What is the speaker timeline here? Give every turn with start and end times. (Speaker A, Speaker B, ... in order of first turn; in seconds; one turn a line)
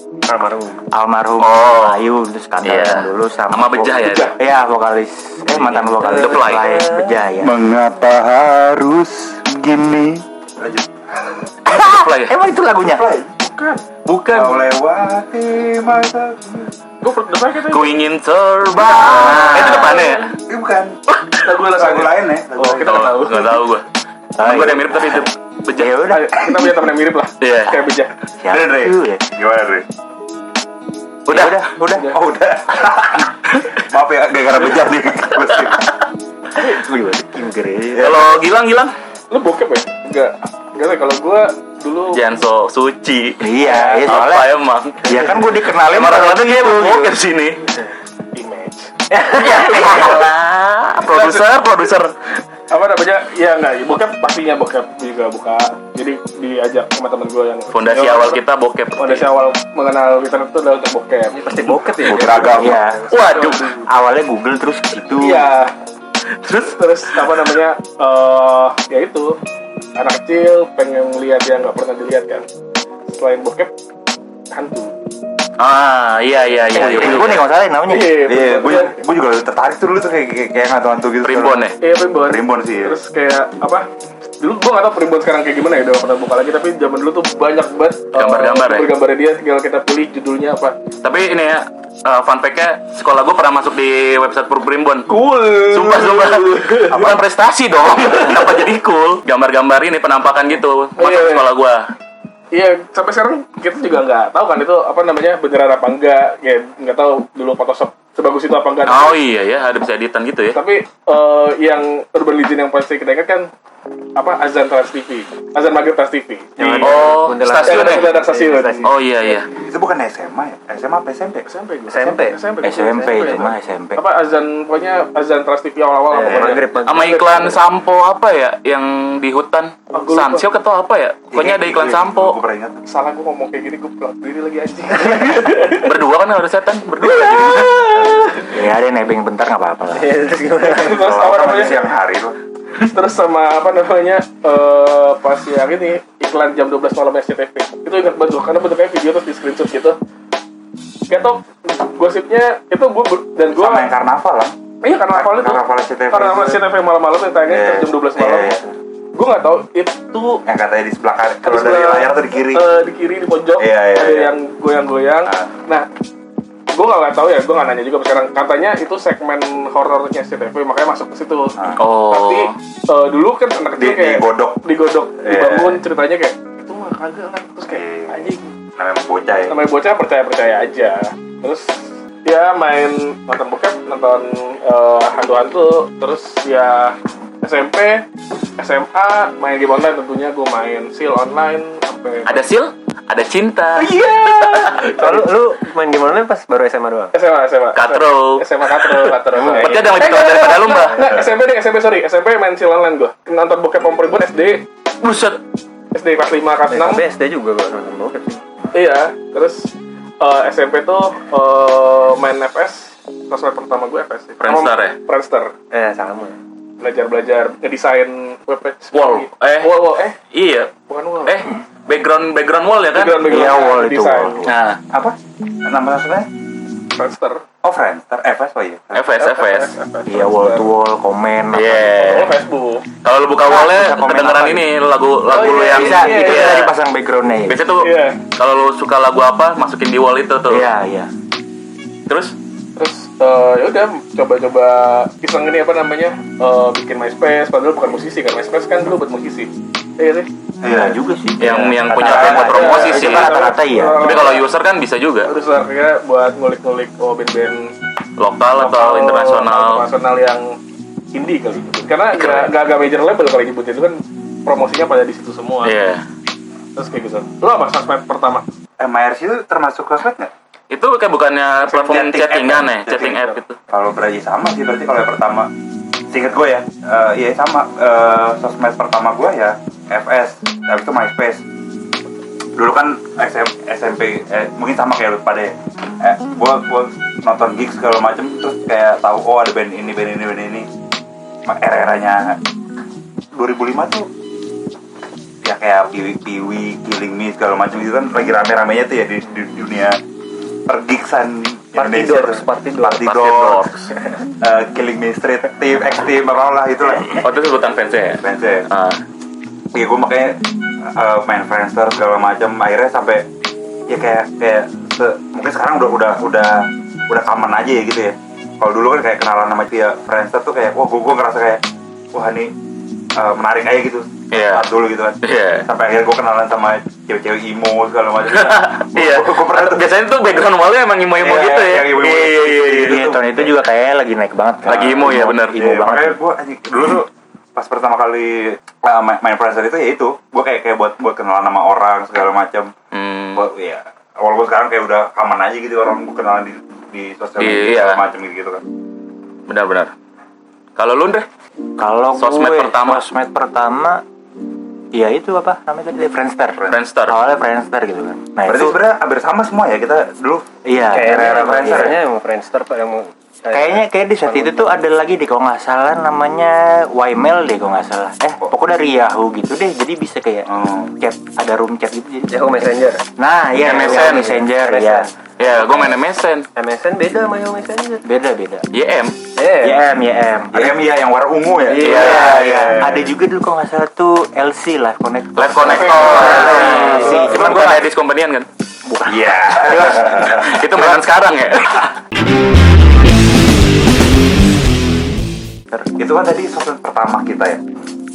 Speaker A: 0.3-0.8
Speaker B: 0.9-7.6
Speaker C: 1.4-2.1
Speaker C: 2.6-4.3
Speaker D: 4.0-4.3
Speaker A: 5.6-7.2
Speaker C: 6.1-6.8
Speaker E: 7.4-11.5
Speaker B: 11.7-13.1
Speaker C: 11.7-12.3
Speaker E: 12.9-13.4
Speaker D: 13.4-13.8
Speaker C: 14.1-14.6
Speaker E: 14.3-16.7
Speaker D: 17.0-18.0
Speaker C: 17.7-20.3
Speaker B: 19.1-20.1
Speaker E: 20.5-21.0
Speaker C: 21.1-21.4
Speaker D: 21.4-23.6
Speaker E: 21.7-23.1
Speaker C: 22.8-23.9
Speaker B: 24.4-26.7
Speaker C: 24.4-26.0
Speaker D: 26.1-28.1
Speaker C: 27.4-27.8
Speaker B: 28.4-29.2
Speaker E: 28.5-29.9
Speaker C: 31.3-31.6
Speaker B: 31.3-32.1
Speaker E: 32.0-35.8
Speaker B: 36.6-38.3
Speaker C: 38.0-38.9
Speaker D: 39.3-42.2
Speaker C: 42.1-43.5
Speaker B: 43.4-47.2
Speaker D: 43.6-44.1
Speaker C: 44.0-45.2
Speaker C: 45.9-47.6
Speaker D: 48.4-48.9
Speaker A: 49.1-49.6
Speaker C: 49.4-52.1
Speaker D: 49.6-50.3
Speaker D: 51.0-51.5
Speaker D: 52.7-58.4
Speaker C: 57.7-59.3
Speaker D: 59.0-61.4
Speaker A: 61.3-63.1
Speaker E: 62.0-62.8
Speaker B: 62.5-63.1
Speaker C: 63.1-63.8
Speaker D: 63.2-63.9
Speaker B: 63.9-65.5
Speaker D: 65.2-65.7
Speaker C: 66.3-67.6
Speaker D: 66.6-69.4
Speaker D: 70.0-72.5
Speaker D: 73.1-73.7
Speaker D: 74.5-74.9
Speaker C: 75.6-77.4
Speaker B: 76.7-78.2
Speaker D: 77.9-79.0
Speaker E: 78.3-81.6
Speaker C: 81.2-81.8
Speaker D: 81.8-83.9
Speaker E: 82.3-83.0
Speaker D: 84.4-90.8
Speaker C: 88.2-88.9
Speaker C: 91.0-95.1
Speaker D: 95.1-97.2
Speaker C: 95.7-101.8
Speaker D: 101.0-101.5
Speaker D: 102.5-109.2
Speaker C: 108.9-110.6
Speaker D: 110.5-113.5
Speaker D: 114.2-118.9
Speaker A: 116.6-118.9
Speaker C: 116.8-118.1
Speaker C: 118.8-119.5
Speaker E: 119.7-121.5
Speaker D: 121.5-126.7
Speaker A: 121.9-123.5
Speaker B: 122.6-124.0
Speaker A: 126.1-127.6
Speaker C: 126.8-132.4
Speaker D: 129.9-130.5
Speaker E: 131.3-132.8
Speaker D: 132.9-136.0
Speaker C: 135.6-137.9
Speaker D: 137.0-138.5
Speaker B: 138.5-140.2
Speaker A: 139.9-141.1
Speaker D: 140.6-141.9
Speaker E: 140.8-142.4
Speaker D: 142.8-150.0
Speaker D: 151.1-153.9
Speaker E: 153.5-154.5
Speaker D: 154.8-158.6
Speaker E: 155.1-156.6
Speaker E: 157.5-158.7
Speaker D: 159.1-160.4
Speaker E: 160.5-162.7
Speaker D: 161.4-165.9
Speaker E: 163.6-164.3
Speaker E: 165.3-165.5
Speaker D: 166.7-171.6
Speaker C: 171.8-172.5
Speaker D: 172.1-178.5
Speaker E: 173.8-174.6
Speaker E: 175.2-175.8
Speaker E: 177.7-179.6
Speaker D: 179.5-188.1
Speaker D: 188.6-192.5
Speaker C: 192.3-194.9
Speaker D: 193.8-195.3
Speaker A: 194.8-197.1
Speaker D: 197.1-204.7
Speaker C: 197.8-201.0
Speaker A: 199.3-200.0
Speaker C: 205.0-205.4
Speaker D: 205.9-207.0
Speaker A: 206.7-208.4
Speaker D: 208.7-215.5
Speaker C: 214.4-215.0
Speaker A: 215.7-216.4
Speaker D: 216.8-220.2
Speaker C: 218.9-223.4
Speaker D: 220.9-221.4
Speaker D: 222.9-224.4
Speaker B: 223.2-224.5
Speaker C: 224.5-224.8
Speaker E: 224.9-226.3
Speaker D: 227.0-227.4
Speaker E: 227.6-229.1
Speaker C: 228.9-229.8
Speaker D: 229.2-230.7
Speaker B: 230.1-232.2
Speaker C: 231.5-232.3
Speaker D: 232.0-232.9
Speaker C: 233.0-236.7
Speaker B: 233.4-234.7
Speaker D: 235.3-236.7
Speaker B: 235.7-237.7
Speaker C: 237.5-240.7
Speaker D: 237.8-238.2
Speaker B: 240.5-241.1
Speaker C: 242.1-242.3
Speaker D: 242.8-250.3
Speaker E: 250.6-251.0
Speaker B: 250.7-254.3
Speaker C: 251.4-253.3
Speaker E: 252.0-252.6
Speaker D: 252.3-254.5
Speaker C: 254.0-255.3
Speaker D: 255.2-257.7
Speaker C: 258.2-259.9
Speaker D: 258.6-260.6
Speaker D: 261.1-265.8
Speaker C: 262.1-262.5
Speaker C: 265.6-266.0
Speaker D: 266.8-268.4
Speaker E: 268.8-270.3
Speaker C: 270.7-273.6
Speaker E: 271.6-275.5
Speaker E: 276.1-281.4
Speaker E: 282.6-290.7
Speaker E: 291.5-292.4
Speaker E: 293.4-294.1
Speaker E: 295.4-300.0
Speaker E: 300.7-303.7
Speaker A: 301.8-303.0
Speaker C: 303.0-303.9
Speaker E: 304.4-307.3
Speaker C: 307.2-309.0
Speaker E: 308.2-308.7
Speaker E: 309.7-313.3
Speaker E: 313.9-322.5
Speaker E: 323.2-329.9
Speaker C: 324.3-324.7
Speaker C: 325.2-325.7
Speaker C: 328.3-333.0
Speaker E: 331.2-333.5
Speaker B: 332.7-336.2
Speaker C: 334.6-335.6
Speaker E: 335.5-342.7
Speaker C: 342.9-343.4
Speaker E: 343.4-348.6
Speaker C: 347.4-348.0
Speaker C: 349.5-349.9
Speaker C: 350.8-351.3
Speaker B: 351.8-354.0
Speaker C: 352.2-353.1
Speaker B: 354.9-358.8
Speaker C: 356.7-357.2
Speaker E: 358.4-360.4
Speaker B: 360.6-362.0
Speaker A: 360.9-364.7
Speaker E: 361.3-361.9
Speaker B: 363.5-372.4
Speaker E: 370.5-370.9
Speaker A: 372.3-373.0
Speaker B: 373.2-375.1
Speaker C: 373.6-374.3
Speaker A: 373.6-375.1
Speaker C: 375.4-376.5
Speaker A: 376.6-378.0
Speaker B: 378.0-378.7
Speaker C: 378.7-379.2
Speaker A: 379.4-379.8
Speaker B: 379.6-380.8
Speaker E: 380.5-383.1
Speaker A: 381.7-382.8
Speaker C: 381.8-382.4
Speaker B: 381.9-387.9
Speaker C: 385.4-388.5
Speaker D: 385.6-387.3
Speaker A: 386.6-387.1
Speaker B: 388.9-390.9
Speaker E: 389.1-390.6
Speaker C: 390.2-391.9
Speaker E: 395.9-397.6